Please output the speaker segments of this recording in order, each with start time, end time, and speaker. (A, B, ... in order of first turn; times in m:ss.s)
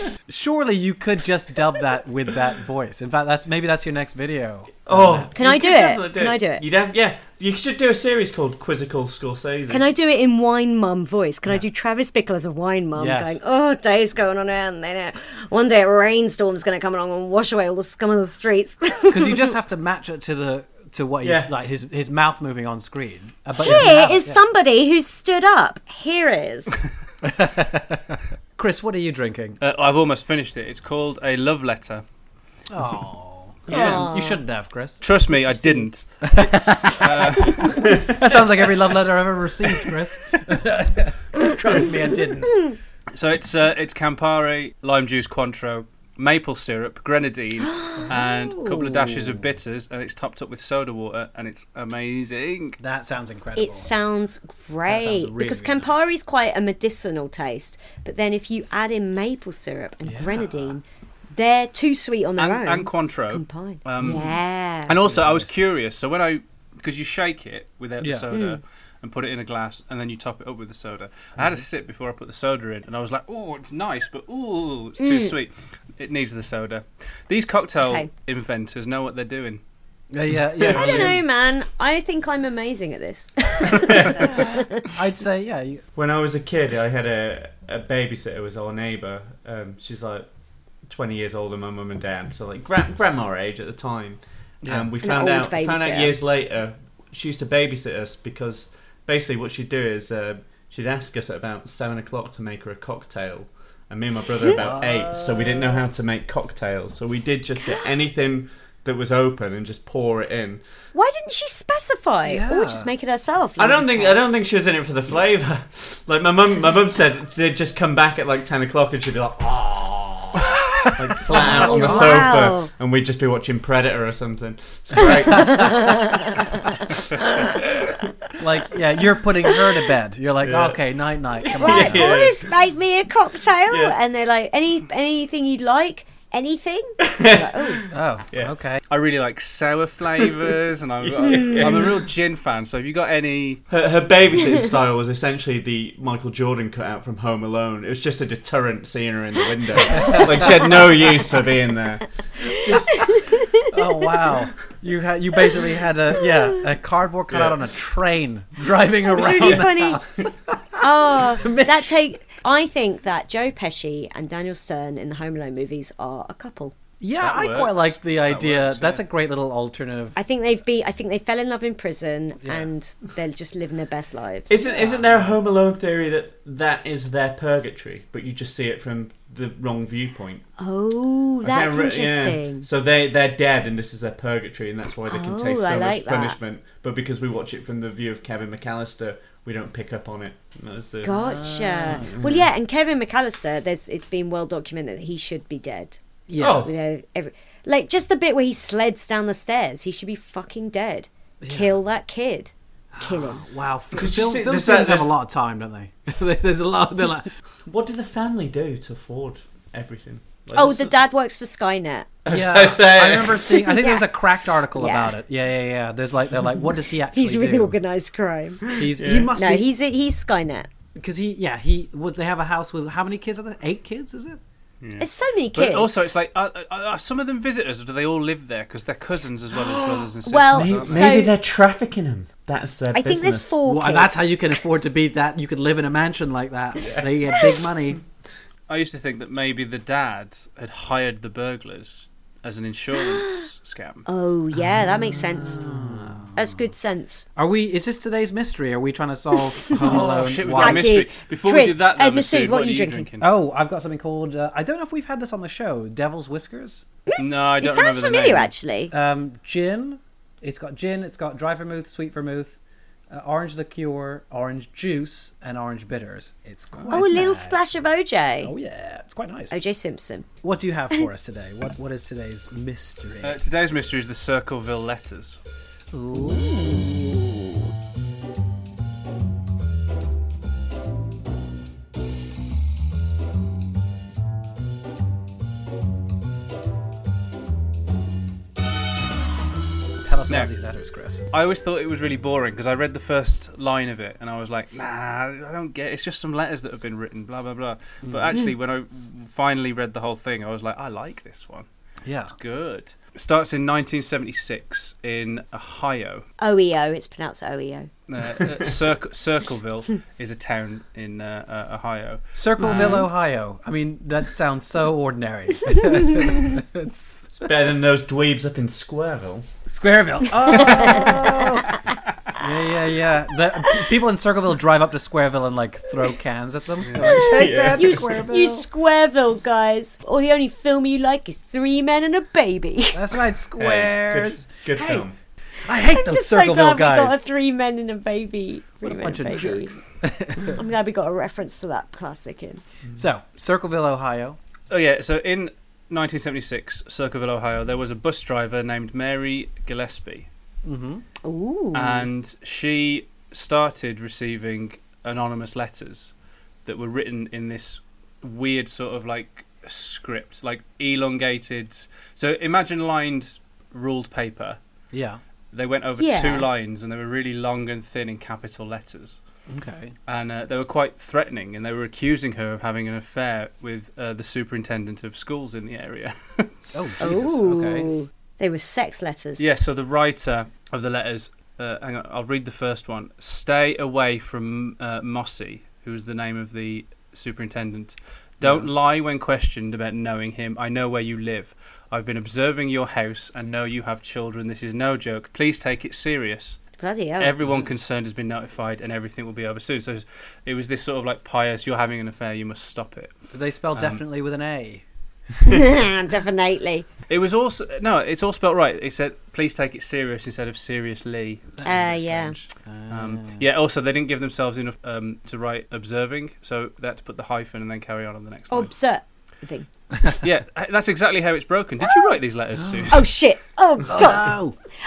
0:00.3-0:05.3 A
0:04.9-0:09.8 B
0:05.3-0:06.6 C
0:09.7-0:19.5 C
0:12.9-0:13.4 A
0:19.1-0:24.4 A
0:21.2-0:21.5 B
0:23.6-0:26.8 C
0:27.2-0:29.6 A
0:29.6-0:32.0 D
0:32.7-0:42.7 A
0:33.7-0:34.1 D
0:33.7-0:34.4 C
0:35.0-0:37.8 D
0:37.8-0:38.3 B
0:43.1-0:52.8 D
0:47.7-0:48.0 C
0:48.0-0:49.5 A
0:52.8-0:53.9 A
0:53.6-1:05.0 C
0:54.8-0:56.0 A
1:00.0-1:00.8 A
1:02.4-1:19.6 D
1:04.9-1:05.5 A
1:08.0-1:08.3 A
1:08.3-1:08.6 C
1:15.0-1:15.3 C
1:17.8-1:18.1 C
1:20.1-1:21.2 A
1:20.7-1:24.9 C
1:23.8-1:24.4 B
1:24.2-1:25.8 A
1:26.0-1:30.3 B
1:30.9-1:50.6 B
1:34.6-1:34.9 A
1:35.0-1:36.2 C
1:44.5-1:45.8 A
1:50.9-1:54.2 C
1:52.2-1:52.9 A
1:53.6-2:07.0 B
2:00.8-2:02.3 A
2:01.3-2:02.7 C
2:05.0-2:07.6 C
2:08.4-2:12.1 A
2:10.4-2:10.8 B
2:11.4-2:12.5 B
2:11.6-2:17.8 C
2:13.7-2:14.0 B
2:17.0-2:18.5 B
2:17.9-2:18.8 A
2:18.9-2:23.6 D
2:21.0-2:22.0 B
2:23.7-2:33.3 B
2:29.9-2:30.7 A
2:32.4-2:33.7 C
2:32.7-2:41.9 A
2:37.3-2:37.6 B
2:39.0-2:40.0 C
2:39.4-2:39.7 B
2:40.8-2:46.7 C
2:47.0-2:50.2 A
2:47.2-2:49.0 D
2:50.2-2:54.6 C
2:52.4-2:52.7 A
2:54.5-3:00.4 B
2:54.6-2:55.4 A
3:00.6-3:02.6 C
3:01.4-3:11.4 B
3:05.1-3:06.4 C
3:11.0-3:23.4 C
3:11.1-3:12.2 A
3:11.9-3:12.4 B
3:16.3-3:16.8 A
3:16.4-3:16.8 B
3:21.4-3:21.7 A
3:22.9-3:27.3 A
3:23.9-3:25.1 B
3:27.6-3:30.9 B
3:30.5-3:32.1 C
3:32.2-3:33.6 B
3:32.3-3:37.8 A
3:33.6-3:34.1 C
3:34.7-3:35.1 C
3:37.1-3:38.7 C
3:38.7-3:39.7 A
3:38.8-3:39.3 B
3:39.3-3:40.7 C
3:41.0-3:44.4 A
3:44.8-3:51.1 D
3:45.0-3:45.9 C
3:49.6-3:51.3 C
3:50.5-3:53.5 B
3:52.9-3:54.2 C
3:53.6-3:58.0 A
3:58.7-4:04.0 D
4:04.0-4:05.6 C
4:04.8-4:06.6 A
4:06.3-4:07.2 C
4:07.4-4:11.0 A
4:09.7-4:13.3 D
4:10.6-4:13.1 C
4:13.2-4:16.8 A
4:17.1-4:18.9 C
4:17.2-4:18.5 D
4:18.9-4:22.6 A
4:23.1-4:27.7 A
4:26.9-4:28.5 C
4:28.4-4:29.5 A
4:29.5-4:30.3 C
4:30.4-4:33.4 A
4:33.2-4:35.4 D
4:35.9-4:37.0 A
4:36.2-4:37.3 C
4:50.0-4:51.2 A
4:51.3-5:01.7 D
4:58.0-4:58.4 A
5:02.0-5:02.3 A
5:02.3-5:06.2 D
5:06.4-5:07.9 C
5:08.1-5:13.0 D
5:12.3-5:17.5 A
5:12.7-5:13.0 C
5:17.4-5:19.4 B
5:19.7-5:21.8 A
5:20.5-5:21.2 C
5:22.3-5:28.7 A
5:26.9-5:27.1 D
5:26.9-5:28.1 B
5:27.0-5:33.0 C
5:32.9-5:35.0 A
5:33.6-5:35.1 B
5:35.6-5:37.2 A
5:35.8-5:39.8 C
5:38.8-5:40.6 A
5:40.4-5:42.6 C
5:43.0-5:44.4 A
5:44.7-5:50.3 D
5:50.6-5:51.0 A
5:51.2-5:52.1 C
5:51.7-5:56.1 D
5:56.6-6:04.6 D
6:04.9-6:05.2 A
6:05.5-6:09.2 D
6:06.0-6:06.5 C
6:09.5-6:09.9 A
6:10.1-6:16.5 D
6:16.7-6:17.9 A
6:17.0-6:19.4 C
6:19.4-6:36.6 D
6:28.4-6:28.7 A
6:36.8-6:37.3 C
6:37.2-6:43.1 D
6:37.4-6:37.7 A
6:43.3-6:44.8 A
6:43.7-6:44.0 D
6:45.4-6:46.9 C
6:47.1-6:51.5 D
6:51.6-6:53.4 A
6:51.6-6:52.4 C
6:52.9-6:58.7 D
6:58.5-6:59.7 C
7:00.2-7:03.1 D
7:02.6-7:03.0 A
7:02.9-7:04.4 C
7:03.9-7:04.6 A